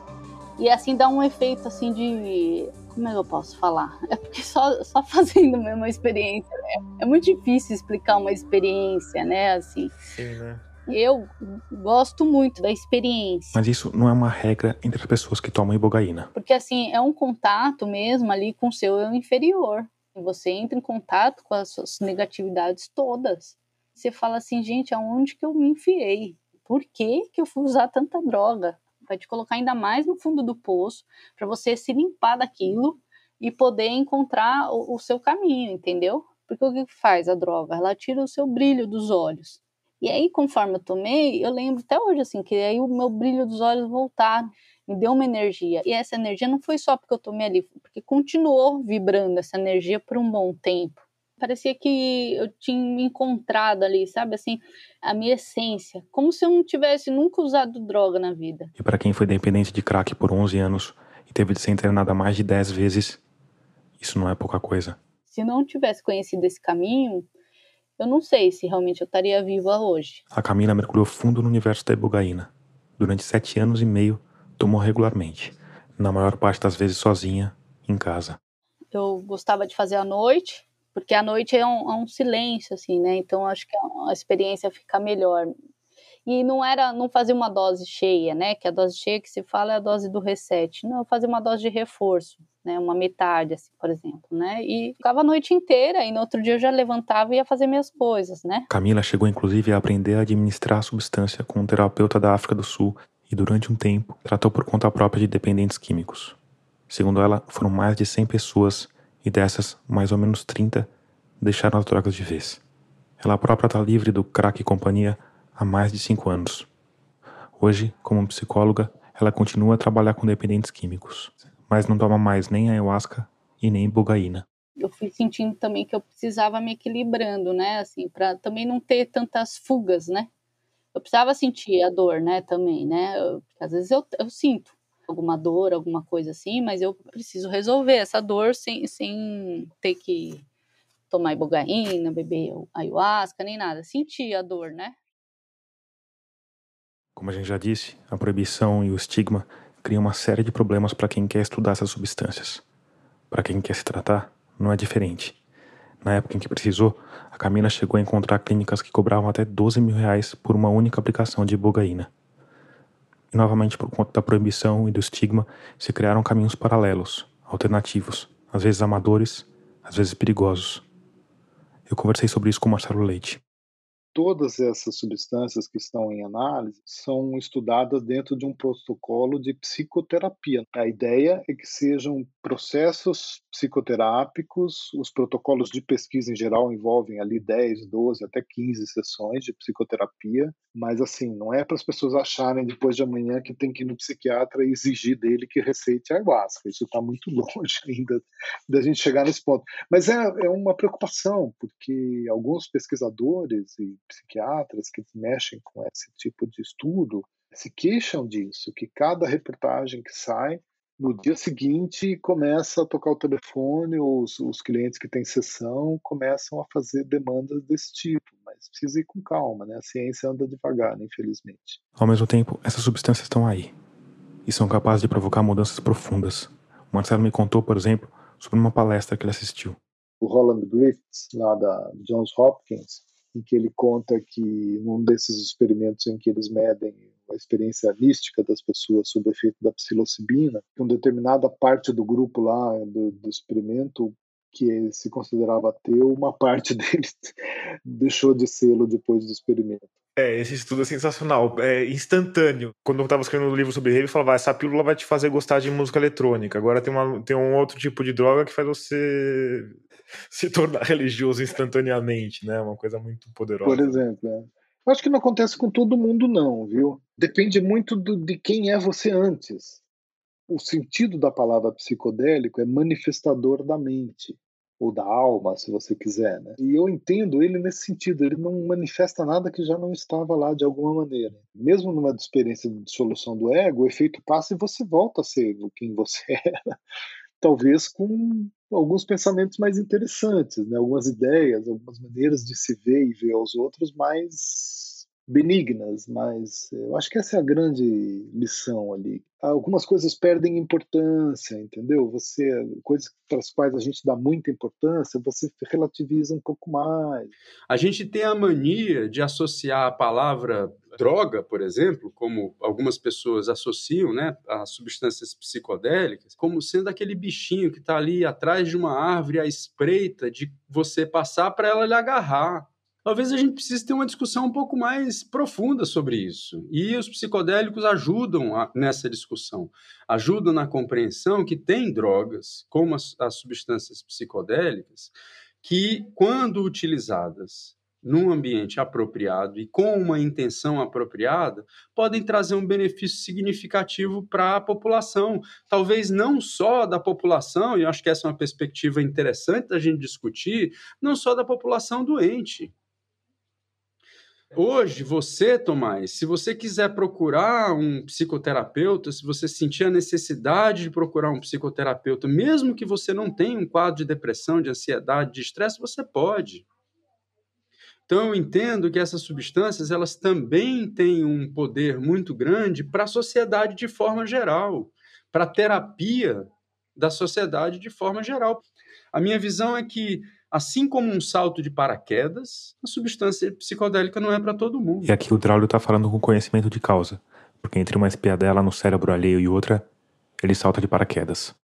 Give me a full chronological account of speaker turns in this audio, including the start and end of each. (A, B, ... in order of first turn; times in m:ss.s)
0:00.6-0:06.5 A
0:07.0-0:09.9 A
0:10.1-0:10.6 B
0:10.9-0:13.6 A
0:13.5-0:16.3 C
0:16.3-0:58.7 A
0:58.8-1:03.2 C
1:04.0-1:05.0 C
1:05.3-1:07.2 A
1:08.0-1:10.2 A
1:10.3-1:18.4 C
1:18.9-1:25.5 A
1:26.2-1:38.7 A
1:38.7-1:46.4 C
1:46.9-1:50.9 C
1:51.4-1:52.6 C
1:53.2-1:56.7 C
1:57.6-2:04.4 C
2:04.8-2:10.3 A
2:10.9-2:20.4 A
2:21.1-2:25.0 A
2:27.2-2:32.6 C
2:33.3-2:35.4 C
2:36.0-2:42.1 C
2:43.3-2:50.8 C
2:51.9-2:53.4 C
2:54.1-3:41.8 D
3:42.0-3:43.7 C
3:44.4-3:49.8 C
3:50.2-4:09.9 D
4:10.2-4:24.0 B
4:23.6-4:29.8 D
4:30.5-4:46.8 D
4:47.4-5:07.3 D
5:07.7-5:52.7 E
5:54.5-6:06.6 E
6:08.1-6:25.1 E
6:25.0-6:29.9 C
6:30.4-6:31.5 C